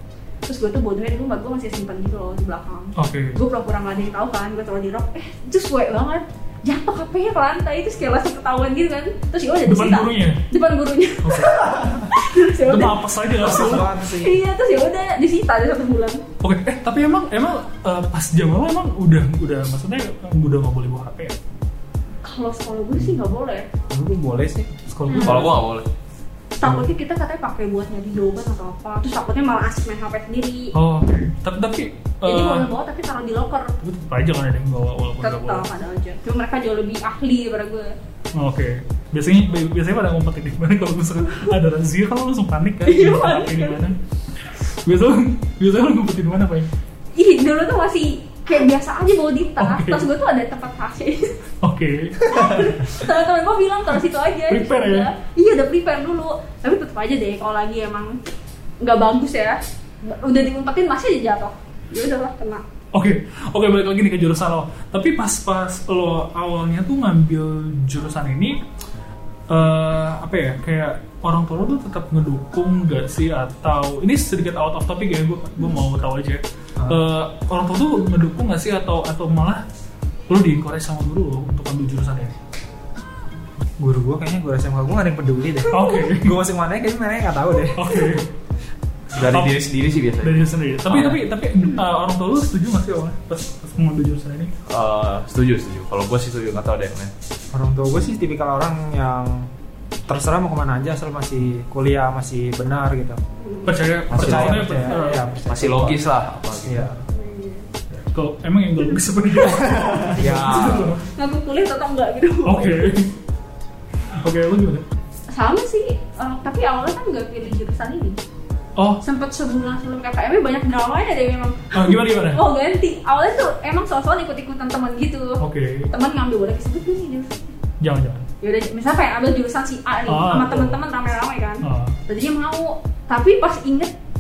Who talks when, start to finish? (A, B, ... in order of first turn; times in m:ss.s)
0:00.5-0:16.2 A
0:03.0-0:03.4 B
0:09.7-0:10.4 B
0:11.2-0:13.9 B
0:13.4-0:14.4 C
0:16.4-0:21.4 B
0:22.2-0:23.7 A
0:23.9-0:24.7 C
0:24.9-0:25.6 B
0:25.1-0:25.5 A
0:25.2-0:25.9 D
0:26.6-0:30.7 A
0:30.8-0:32.7 B
0:32.2-0:33.8 A
0:33.8-0:35.7 B
0:35.2-0:37.9 A
0:38.4-0:46.7 B
0:42.8-0:43.8 A
0:47.2-0:51.3 A
0:49.6-0:50.1 B
0:51.6-0:52.8 B
0:52.2-0:58.2 A
0:54.5-0:55.1 B
0:58.8-1:02.6 A
1:02.9-1:08.6 B
1:09.5-1:19.6 B
1:20.3-1:22.4 B
1:23.8-1:28.1 C
1:25.7-1:26.4 B
1:27.8-1:28.3 B
1:29.1-1:31.2 D
1:29.2-1:29.6 B
1:30.2-1:34.5 B
1:34.7-1:37.1 D
1:37.5-1:39.5 C
1:40.1-1:43.2 C
1:43.4-1:43.8 A
1:43.7-1:45.2 B
1:44.1-1:44.8 D
1:44.1-1:46.0 C
1:44.8-1:45.2 A
1:45.5-1:46.9 D
1:46.6-1:47.0 C
1:47.1-1:47.7 A
1:47.9-1:51.0 B
1:49.8-1:50.5 C
1:50.2-1:51.0 D
1:51.0-1:52.9 A
1:52.4-1:53.1 B
1:54.2-1:54.8 B
1:55.3-1:58.2 A
1:58.8-1:59.0 B
1:59.0-2:07.4 A
2:01.7-2:02.4 B
2:05.4-2:05.9 B
2:07.8-2:08.3 B
2:08.4-2:13.9 A
2:10.1-2:10.8 B
2:11.6-2:12.0 B